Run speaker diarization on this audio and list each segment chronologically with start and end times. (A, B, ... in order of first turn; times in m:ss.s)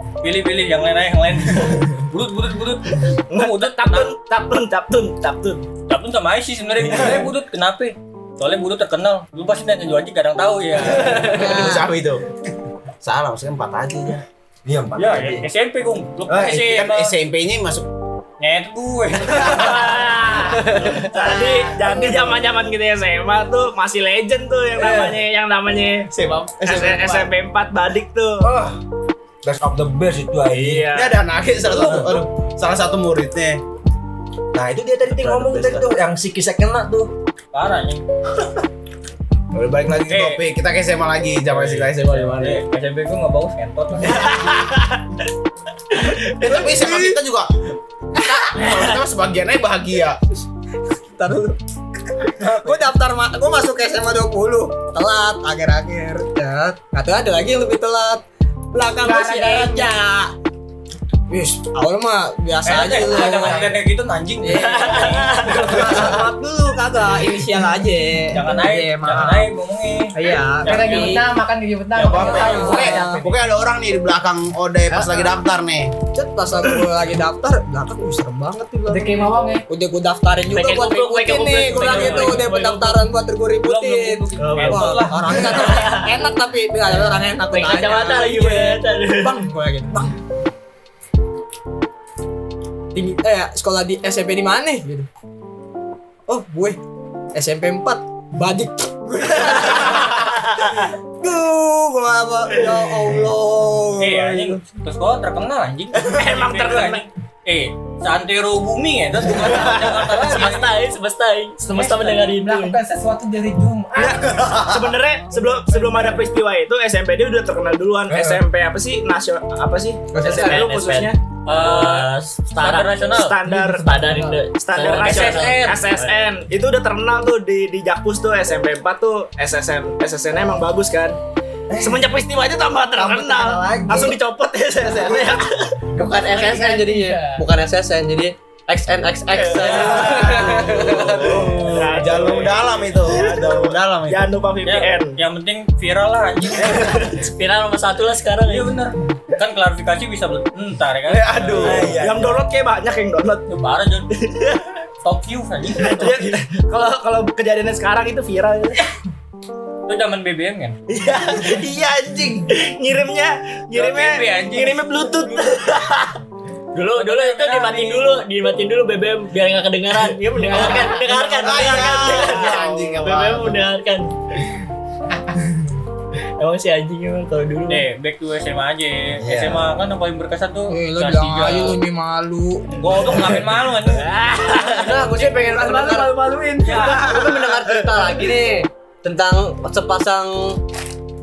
0:00.2-0:04.1 A
0:03.3-0:05.7 B
0:05.9-0:11.5 A
0:06.8-0:07.3 C
0:11.0-0:12.2 D
0:11.2-0:11.9 E
0:13.0-0:14.2 D
0:14.6-0:15.5 C
0:15.0-0:17.1 A
0:16.3-0:16.6 C
0:16.3-0:17.9 D
0:18.4-0:21.0 A
0:19.4-0:28.5 B
0:24.8-0:25.2 C
0:26.1-0:27.3 D
0:28.4-0:28.8 C
0:29.4-0:30.9 C
0:30.5-0:31.2 B
0:30.9-0:33.6 D
0:31.6-0:32.3 C
0:34.5-0:37.1 C
0:35.3-0:35.7 B
0:37.5-0:38.0 A
0:39.5-0:42.6 D
0:40.1-0:40.4 A
0:41.5-0:44.6 A
0:44.1-0:45.0 B
0:46.0-0:46.5 B
0:46.4-0:47.5 D
0:46.5-0:47.1 E
0:48.2-0:50.2 D
0:48.2-0:48.7 E
0:51.2-0:51.6 E
0:52.2-1:00.3 E
0:59.1-0:59.8 F
1:01.3-1:03.8 E
1:02.6-1:06.0 A
1:04.4-1:09.5 E
1:04.8-1:05.7 G
1:08.3-1:11.2 A
1:10.1-1:11.3 E
1:10.6-1:13.0 F
1:12.0-1:13.0 A
1:12.0-1:15.9 D
1:12.1-1:13.4 E
1:14.9-1:15.2 E
1:16.1-1:30.2 E
1:18.9-1:19.6 F
1:20.5-1:23.0 G
1:21.7-1:22.5 A
1:23.6-1:25.9 A
1:24.4-1:26.2 G
1:27.5-1:29.4 G
1:32.9-1:35.1 E
1:36.3-1:36.8 E
1:37.3-1:40.6 E
1:41.2-1:44.6 E
1:44.0-1:50.8 A
1:46.0-1:47.1 B
1:49.5-1:52.8 G
1:51.7-1:52.3 A
1:52.3-1:54.5 F
1:54.0-2:01.2 B
1:54.2-1:55.0 C
1:55.7-1:56.0 F
1:58.1-1:58.4 C
2:00.2-2:03.0 G
2:00.3-2:00.6 H
2:01.5-2:03.4 A
2:03.1-2:03.9 B
2:03.6-2:04.0 C
2:03.7-2:06.2 G
2:04.5-2:11.2 B
2:04.7-2:05.8 A
2:11.7-2:12.1 C
2:11.8-2:15.8 B
2:13.0-2:14.2 C
2:16.0-2:21.4 H
2:16.2-2:17.4 F
2:19.3-2:25.2 B
2:19.8-2:24.4 D
2:21.1-2:21.8 C
2:24.6-2:27.1 A
2:26.7-2:28.7 G
2:28.4-2:32.0 A
2:31.1-2:32.0 D
2:31.6-2:32.4 C
2:32.0-2:33.4 B
2:33.5-2:34.2 A
2:34.2-2:34.6 B
2:35.0-2:36.2 A
2:35.8-2:38.8 B
2:39.9-2:40.8 A
2:40.9-2:46.2 B
2:43.7-2:45.6 A
2:46.7-2:54.1 G
2:46.9-2:48.2 A
2:50.6-2:51.0 F
2:51.4-2:53.6 D
2:52.1-2:53.0 B
2:56.4-2:57.8 G
2:57.7-3:01.8 A
2:59.2-2:59.7 C
3:00.7-3:03.2 E
3:02.8-3:04.1 A
3:03.9-3:04.9 B
3:04.7-3:06.1 H
3:05.4-3:06.9 E
3:05.8-3:07.6 B
3:06.6-3:10.6 H